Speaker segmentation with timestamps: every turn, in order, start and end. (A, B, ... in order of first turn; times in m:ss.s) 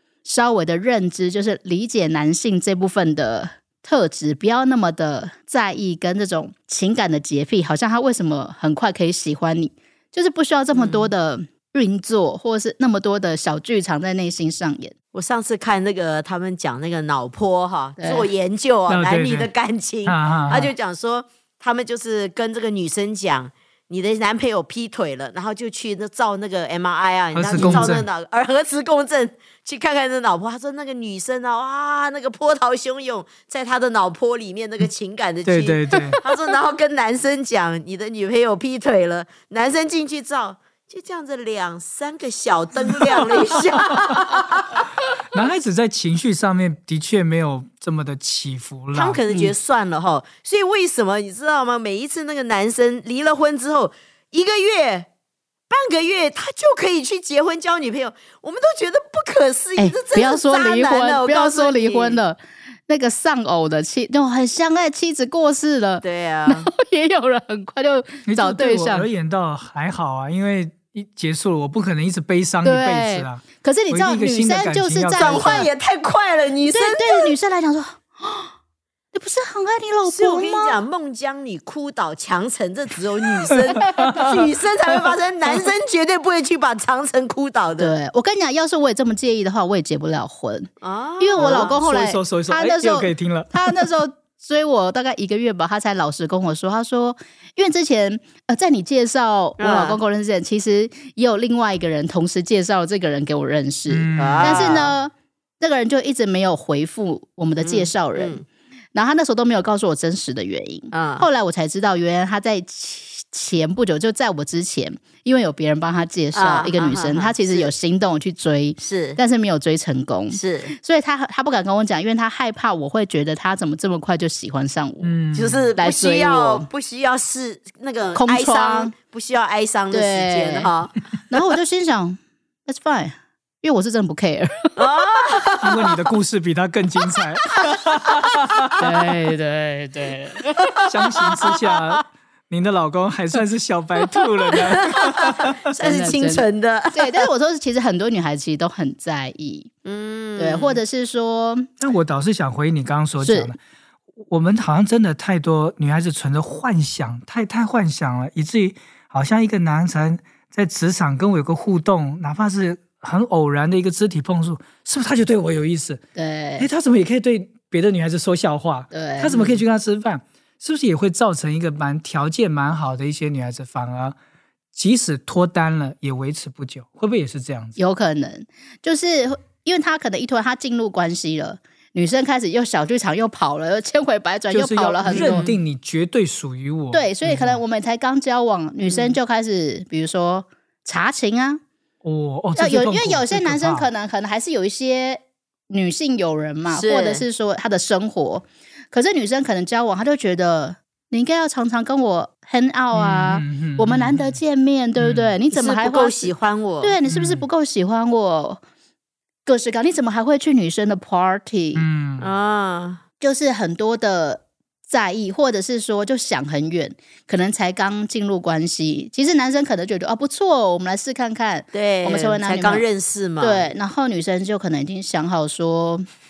0:00.2-0:14.9 A
0:10.7-0:11.1 B
0:15.1-0:44.9 B
0:18.0-0:18.3 A
0:18.9-0:19.5 C
0:20.0-0:20.7 C
0:27.3-0:28.1 C
0:27.6-0:28.0 A
0:35.4-0:36.2 C
0:45.3-0:49.2 C
0:48.9-0:55.1 B
0:55.7-1:02.2 B
0:59.8-1:09.1 A
1:06.0-1:06.7 B
1:08.3-1:15.7 C
1:12.6-1:15.7 A
1:15.2-1:17.4 B
1:16.7-1:18.5 A
1:19.1-1:20.8 A
1:20.0-1:27.9 B
1:23.6-1:24.5 C
1:27.8-1:48.4 A
1:30.8-1:31.8 B
1:31.4-1:33.9 C
1:39.6-1:40.0 B
1:43.9-1:44.8 C
1:44.2-1:44.9 B
1:47.6-1:48.4 B
1:48.9-2:05.2 A
1:50.9-1:51.3 B
1:56.3-1:57.7 B
1:58.8-1:59.2 B
2:00.3-2:00.8 B
2:05.0-2:05.7 C
2:05.3-2:11.0 B
2:05.8-2:06.7 A
2:08.2-2:08.9 A
2:09.9-2:10.7 A
2:11.3-2:14.8 A
2:14.8-2:15.8 B
2:15.6-2:18.8 C
2:18.8-2:21.7 A
2:20.9-2:25.7 C
2:24.6-2:27.3 B
2:25.8-2:29.7 A
2:29.9-2:30.8 B
2:30.4-2:31.7 A
2:31.8-2:33.6 C
2:33.2-2:33.5 A
2:34.3-2:46.0 C
2:46.2-2:46.7 A
2:46.6-2:54.2 C
2:48.9-2:49.6 A
2:54.7-2:57.8 C
2:57.8-3:05.5 A
3:04.5-3:07.6 C
3:05.1-3:05.6 B
3:06.9-3:11.6 A
3:08.9-3:09.2 B
3:12.0-3:13.9 C
3:12.6-3:28.6 A
3:16.7-3:17.3 B
3:22.9-3:24.4 C
3:25.0-3:25.3 C
3:25.5-3:27.0 B
3:27.1-3:27.5 C
3:29.4-3:31.8 A
3:31.8-3:32.3 C
3:32.2-3:33.0 B
3:33.2-3:42.8 A
3:41.7-3:43.7 B
3:43.4-3:46.1 A